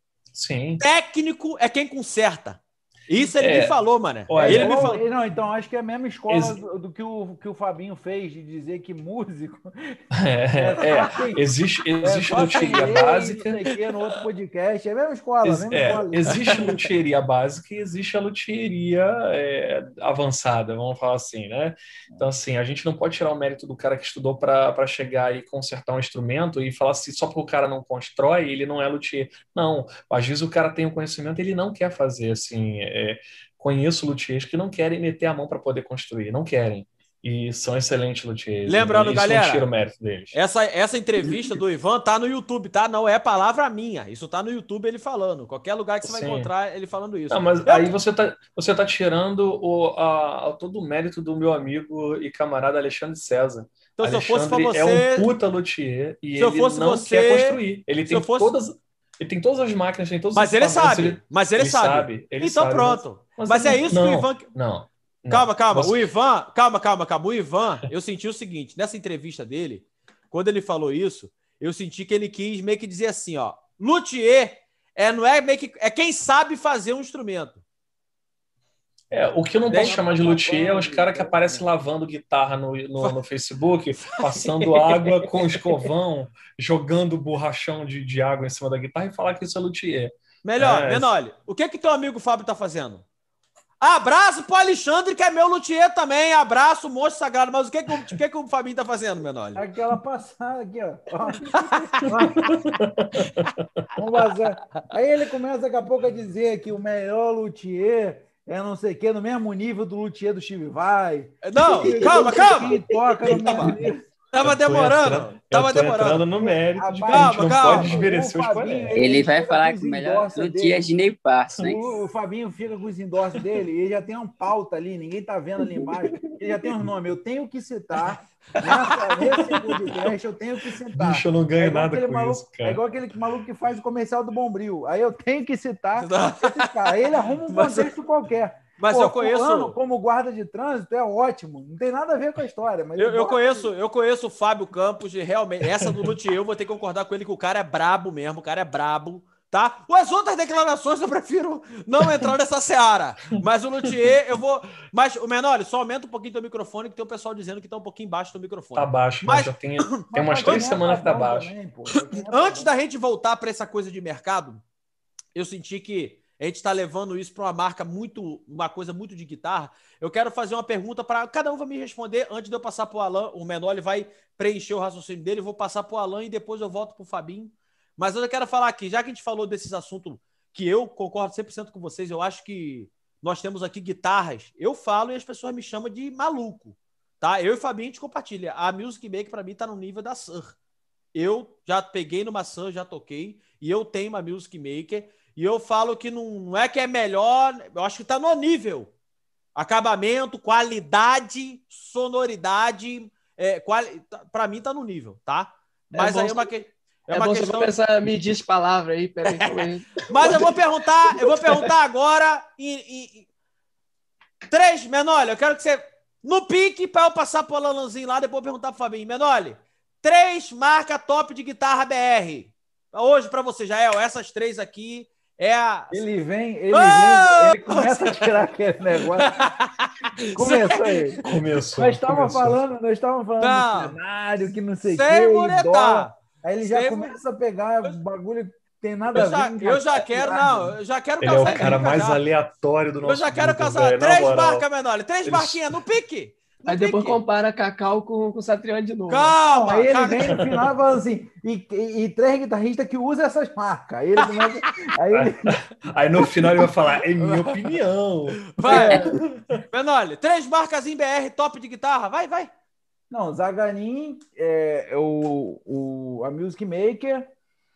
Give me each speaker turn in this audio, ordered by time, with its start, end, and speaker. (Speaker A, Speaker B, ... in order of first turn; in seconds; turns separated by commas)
Speaker A: 0.3-0.8, Speaker B: 0.8-5.0, Speaker A: 3.4-3.8, Speaker A: 4.3-5.0, Speaker C: 4.4-10.0, Speaker A: 6.3-6.6, Speaker A: 10.1-13.6, Speaker C: 10.6-11.4, Speaker C: 12.0-16.7, Speaker B: 12.3-13.0, Speaker A: 15.4-40.4, Speaker B: 16.3-16.7, Speaker B: 38.7-39.6, Speaker B: 40.3-47.9, Speaker D: 41.2-41.5, Speaker A: 46.0-46.5, Speaker A: 47.3-66.0, Speaker B: 54.0-55.3, Speaker B: 56.4-58.5, Speaker B: 60.3-64.5, Speaker B: 65.3-77.6, Speaker A: 79.1-91.1, Speaker B: 79.7-80.2, Speaker C: 79.7-81.7, Speaker B: 84.1-85.8, Speaker B: 90.4-93.0, Speaker B: 93.8-99.6, Speaker C: 99.5-102.5, Speaker B: 101.5-102.6, Speaker A: 102.0-103.5, Speaker C: 104.0-114.0, Speaker B: 111.4-113.8, Speaker B: 114.3-116.2, Speaker A: 114.4-119.0, Speaker C: 116.4-120.9, Speaker B: 117.1-118.0, Speaker D: 118.9-121.8, Speaker C: 121.6-143.7, Speaker E: 128.9-129.8, Speaker A: 130.9-132.8, Speaker B: 135.9-137.9, Speaker B: 138.8-139.8, Speaker B: 142.9-160.8, Speaker A: 145.8-146.1, Speaker A: 153.4-154.0, Speaker A: 158.7-161.5, Speaker C: 160.1-162.7, Speaker B: 162.1-164.6, Speaker B: 165.3-190.6, Speaker B: 191.1-198.9, Speaker B: 199.6-207.7, Speaker E: 205.9-206.4, Speaker E: 207.1-210.6, Speaker B: 209.2-213.3, Speaker E: 211.1-211.6, Speaker B: 214.5-226.0, Speaker C: 225.9-229.4, Speaker B: 226.7-228.4, Speaker B: 229.0-231.2, Speaker C: 230.3-240.8, Speaker A: 231.2-232.6, Speaker B: 233.4-234.0, Speaker B: 234.9-237.2, Speaker B: 239.1-242.2, Speaker A: 241.2-244.6, Speaker E: 241.4-241.8, Speaker B: 243.0-247.2, Speaker A: 245.2-245.8, Speaker E: 246.7-249.3, Speaker B: 249.1-250.3, Speaker C: 249.5-255.5, Speaker A: 250.3-250.7, Speaker B: 254.2-254.5, Speaker A: 255.1-259.6, Speaker B: 257.2-257.8, Speaker B: 258.4-259.0, Speaker C: 258.7-259.1, Speaker B: 259.7-262.5, Speaker C: 263.1-267.3